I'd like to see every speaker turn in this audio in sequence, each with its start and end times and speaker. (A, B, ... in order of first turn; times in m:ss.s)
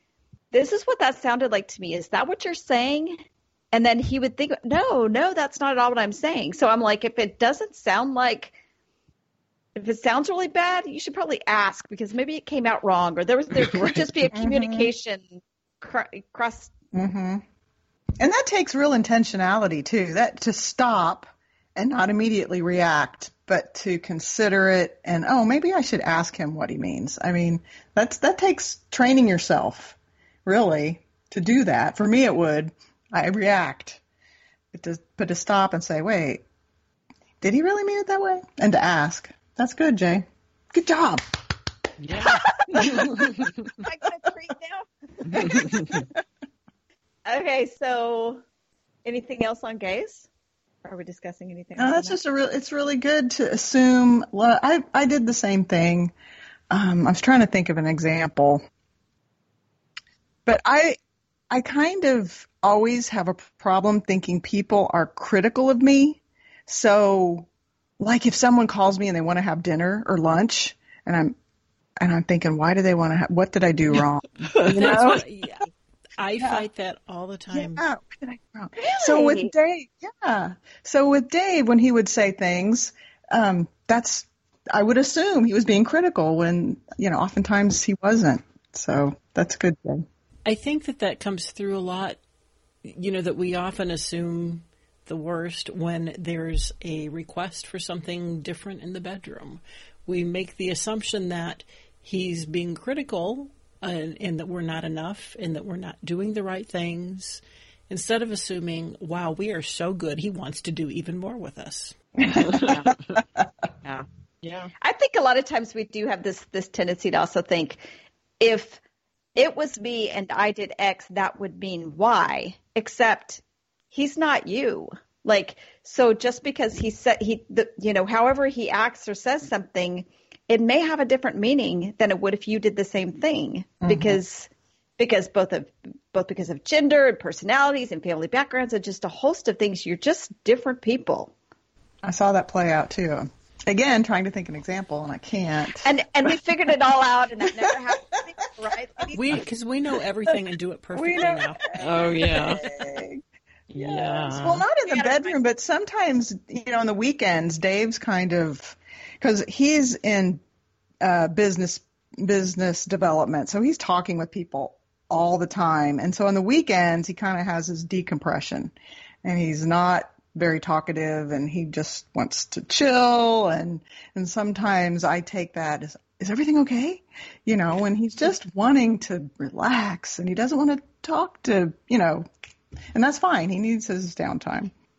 0:00.5-0:03.2 A
0:03.7-0:08.6 A
0:09.8-0:16.7 A
0:14.3-0:14.9 B
0:16.9-0:17.4 B
0:18.2-0:34.0 B
0:34.7-0:36.4 B
0:37.4-0:41.2 B
0:42.0-0:43.5 C
0:42.3-0:46.0 A
0:42.7-0:43.1 B
0:45.3-0:46.1 B
0:45.4-0:45.9 C
0:47.2-0:48.4 A
0:49.0-0:50.3 A
0:50.8-0:52.2 A
0:51.8-0:56.1 B
0:56.7-0:58.6 B
1:00.4-1:01.0 B
1:01.5-1:07.5 B
1:08.0-1:11.3 B
1:12.0-1:15.2 B
1:14.6-1:15.0 C
1:14.6-1:17.8 D
1:16.4-1:16.6 B
1:17.5-1:30.0 B
1:18.8-1:19.5 A
1:30.4-1:32.2 D
1:32.8-1:52.0 D
1:52.2-1:53.4 B
1:52.4-1:53.0 C
1:53.8-1:54.7 C
1:54.8-1:57.8 A
1:58.4-1:58.8 A
1:59.3-2:21.3 A
2:13.8-2:14.2 B
2:22.0-2:25.9 B
2:25.8-2:29.2 A
2:29.1-2:32.9 D
2:30.9-2:33.2 B
2:31.7-2:32.6 C
2:33.7-2:34.6 C
2:33.8-2:40.4 B
2:34.8-2:35.4 A
2:41.0-2:48.7 B
2:49.2-3:02.3 B
3:02.9-3:04.7 B